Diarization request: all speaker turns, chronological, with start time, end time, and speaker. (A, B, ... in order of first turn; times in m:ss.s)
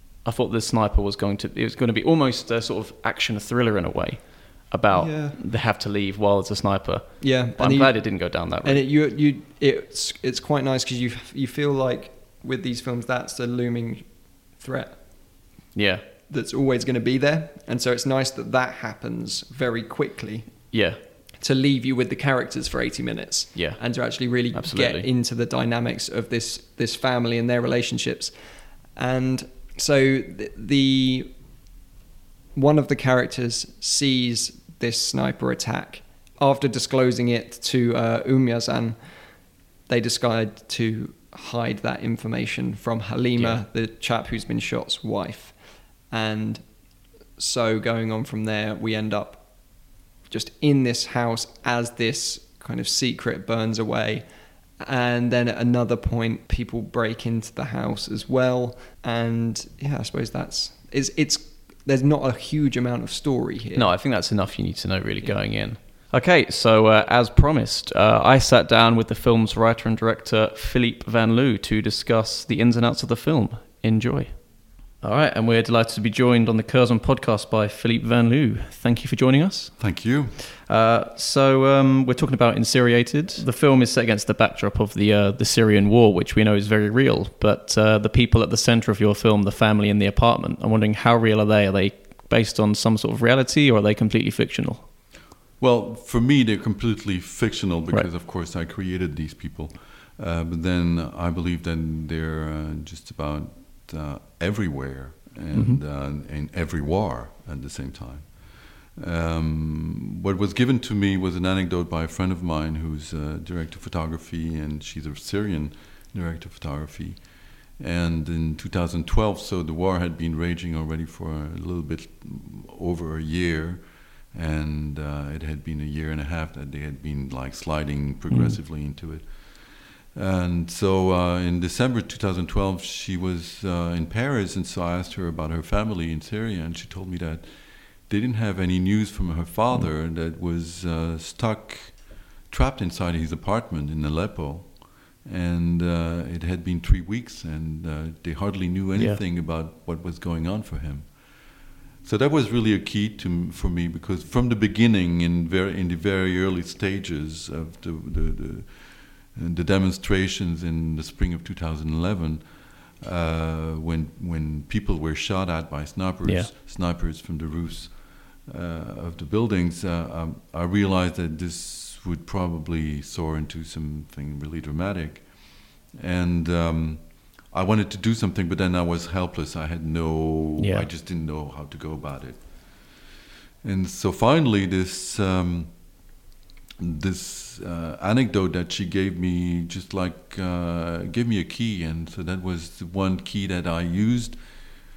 0:00.2-0:08.8 A
0:04.9-0:05.4 B
0:07.2-0:15.3 B
0:15.8-0:16.0 A
0:16.3-0:20.8 B
0:20.7-0:21.0 A
0:21.4-0:28.4 B
0:23.6-0:23.8 A
0:24.5-0:25.1 A
0:29.0-0:31.3 B
0:32.6-0:39.0 B
0:39.9-0:45.6 B
0:43.4-0:43.6 A
0:46.1-0:46.6 B
0:47.4-0:49.5 B
0:50.3-0:54.2 B
0:54.8-1:03.9 B
1:03.8-1:14.5 A
1:15.0-1:34.9 A
1:19.8-1:20.4 C
1:35.6-2:31.4 C
1:45.5-1:45.8 A
2:08.3-2:08.6 A
2:29.0-2:29.2 A
2:32.0-3:03.0 C
2:46.2-2:46.5 A
3:00.6-3:00.9 A
3:03.6-3:05.7 C
3:06.8-3:14.6 C